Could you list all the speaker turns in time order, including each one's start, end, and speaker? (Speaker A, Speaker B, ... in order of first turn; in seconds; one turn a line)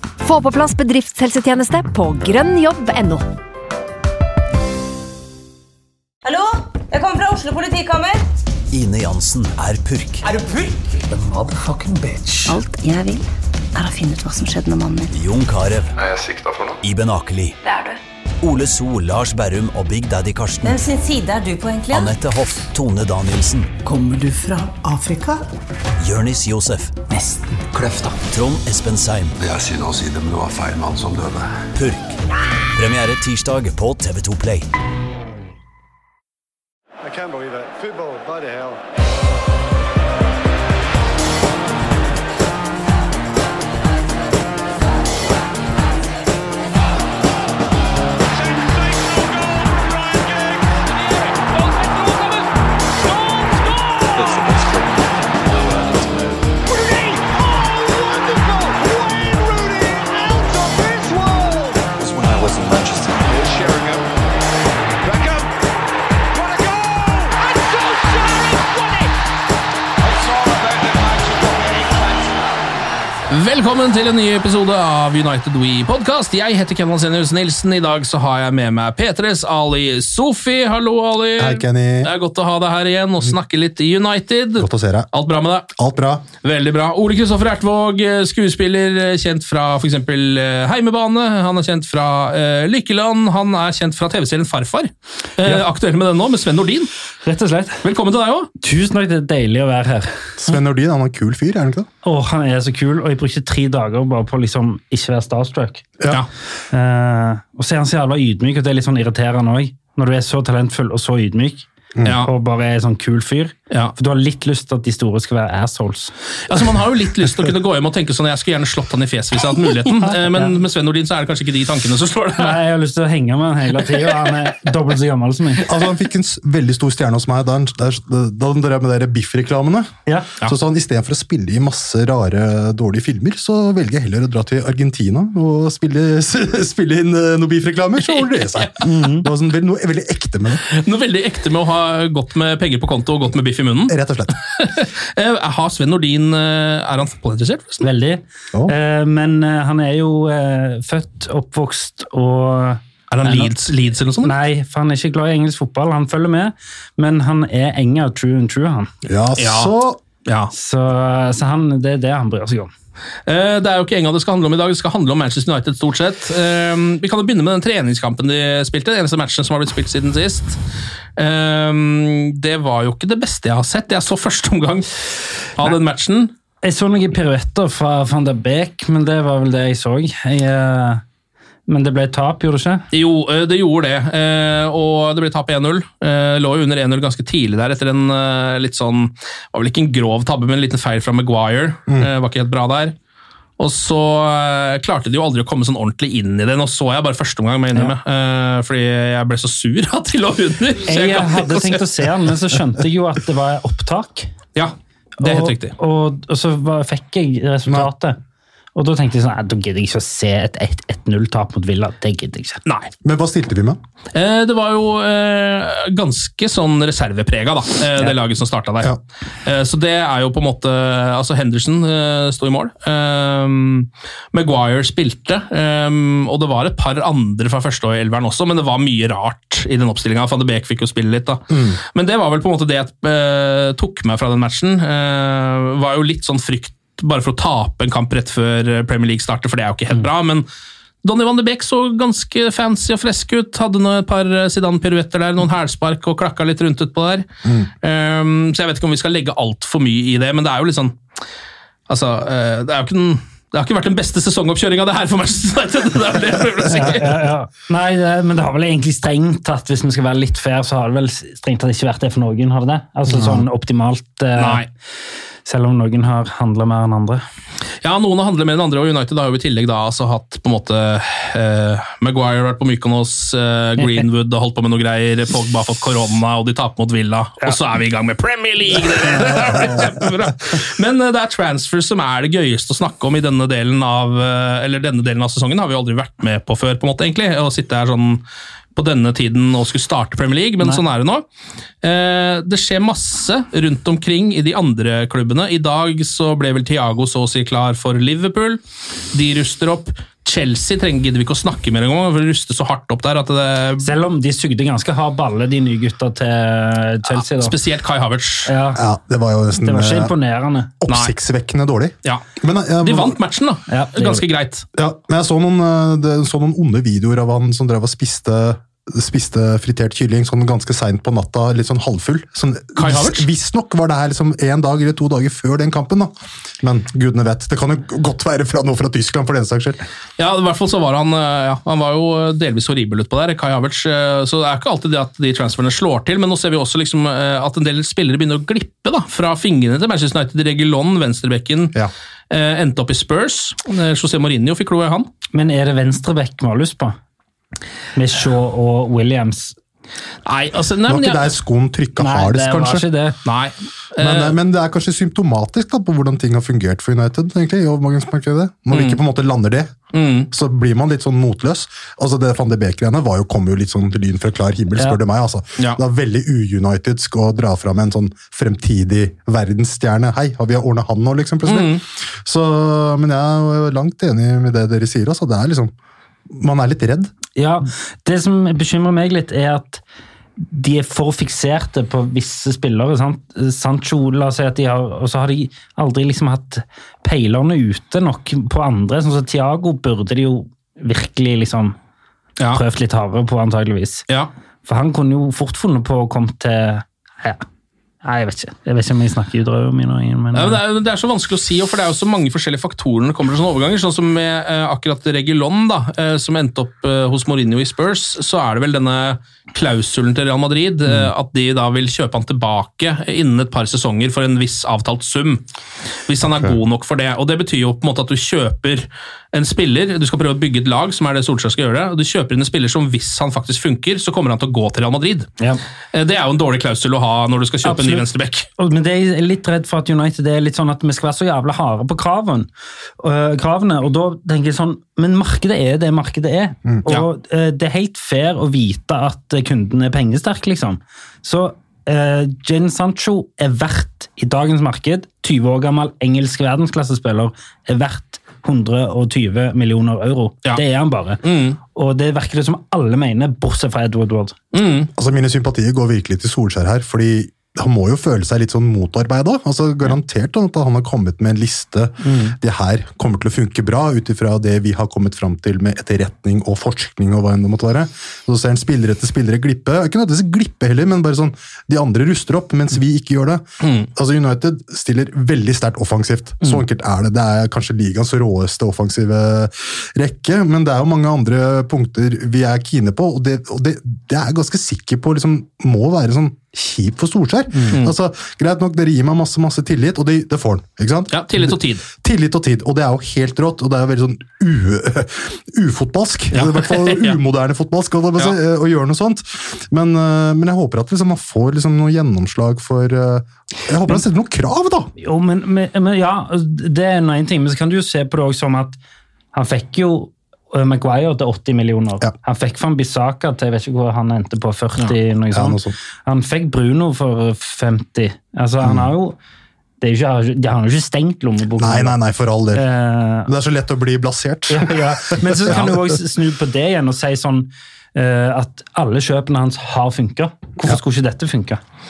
Speaker A: 0.2-3.2
Speaker B: 6.2-8.2
Speaker C: 8.7-10.2
Speaker D: 10.3-12.6
Speaker E: 12.5-15.1
Speaker C: 15.1-15.9
Speaker F: 16.0-16.8
Speaker C: 16.8-17.6
Speaker C: 18.4-20.8
Speaker B: 20.6-22.1
Speaker C: 21.9-23.7
Speaker D: 23.8-25.4
Speaker C: 26.0-27.0
Speaker D: 27.1-28.2
Speaker C: 28.3-29.4
Speaker F: 29.4-31.6
Speaker C: 31.7-32.2
Speaker C: 32.7-34.7
Speaker G: 37.1-38.8
Speaker G: 48.3-54.5
Speaker F: 54.1-56.2
Speaker G: 55.7-61.8
Speaker F: 62.0-63.4
Speaker G: 63.3-64.1
Speaker G: 65.0-65.5
Speaker G: 66.3-69.1
Speaker G: 70.0-72.5
Speaker H: 73.3-85.7
Speaker I: 81.4-82.1
Speaker I: 84.6-85.1
Speaker I: 85.7-86.2
Speaker H: 86.4-96.9
Speaker J: 97.2-97.8
Speaker H: 97.8-98.5
Speaker J: 98.6-100.1
Speaker I: 100.4-101.9
Speaker J: 102.0-105.8
Speaker J: 106.7-116.1
Speaker H: 112.0-112.3
Speaker H: 113.7-113.9
Speaker H: 116.5-122.6
Speaker J: 119.9-120.5
Speaker J: 122.4-125.7
Speaker I: 125.7-140.6
Speaker H: 138.0-138.7
Speaker J: 138.8-139.2
Speaker H: 140.7-143.9
Speaker I: 143.9-144.3
Speaker H: 144.5-147.8
Speaker J: 147.8-153.5
Speaker H: 153.1-154.3
Speaker J: 154.2-158.9
Speaker I: 159.0-160.0
Speaker H: 159.4-159.7
Speaker H: 160.2-160.5
Speaker J: 160.5-162.7
Speaker H: 163.2-170.6
Speaker H: 171.2-176.3
Speaker J: 176.6-181.0
Speaker J: 181.7-182.8
Speaker H: 182.9-192.9
Speaker H: 193.6-201.9
Speaker J: 200.8-204.3
Speaker H: 204.5-205.7
Speaker J: 205.2-208.2
Speaker J: 208.8-212.6
Speaker H: 212.7-212.9
Speaker I: 213.0-213.8
Speaker H: 214.1-240.4
Speaker I: 231.5-231.8
Speaker H: 241.0-247.3
Speaker I: 247.4-247.7
Speaker H: 247.8-251.0
Speaker H: 251.9-257.2
Speaker J: 256.7-264.6
Speaker I: 263.1-263.4
Speaker H: 264.4-264.7
Speaker J: 265.4-267.2
Speaker H: 267.8-288.2
Speaker H: 288.7-291.2
Speaker H: 291.8-298.6
Speaker H: 299.1-303.9
Speaker J: 303.8-307.6
Speaker H: 307.1-308.5
Speaker J: 308.4-308.8
Speaker I: 308.8-310.1
Speaker J: 309.6-310.7
Speaker I: 310.8-313.2
Speaker H: 310.9-311.1
Speaker H: 312.8-314.6
Speaker J: 313.7-314.2
Speaker I: 314.7-329.8
Speaker H: 322.8-323.3
Speaker H: 330.2-341.7
Speaker H: 342.3-345.1
Speaker J: 345.3-346.9
Speaker J: 347.9-349.6
Speaker H: 350.2-351.3
Speaker I: 350.9-352.9
Speaker J: 352.0-353.2
Speaker H: 353.2-354.4
Speaker I: 354.0-359.7
Speaker H: 358.7-359.0
Speaker H: 359.9-360.3
Speaker I: 360.3-375.7
Speaker H: 371.4-371.8
Speaker I: 376.3-377.1
Speaker J: 377.4-379.8
Speaker J: 380.4-391.8
Speaker J: 392.5-394.1
Speaker J: 394.6-397.4
Speaker J: 398.0-400.6
Speaker H: 400.3-415.4
Speaker H: 416.1-425.3
Speaker H: 425.9-428.5
Speaker J: 427.6-428.0
Speaker J: 428.6-432.5
Speaker J: 433.0-454.4
Speaker H: 451.2-451.6
Speaker H: 454.5-454.9
Speaker I: 454.9-504.9
Speaker J: 462.0-462.3
Speaker H: 473.6-473.9
Speaker H: 487.6-487.9
Speaker H: 491.1-491.8
Speaker H: 496.3-497.2
Speaker J: 505.0-508.8
Speaker J: 509.3-519.2
Speaker I: 515.3-515.7
Speaker I: 518.6-518.9
Speaker J: 519.8-522.0
Speaker I: 521.6-522.6
Speaker J: 522.5-523.3
Speaker I: 523.2-525.9
Speaker J: 524.5-531.6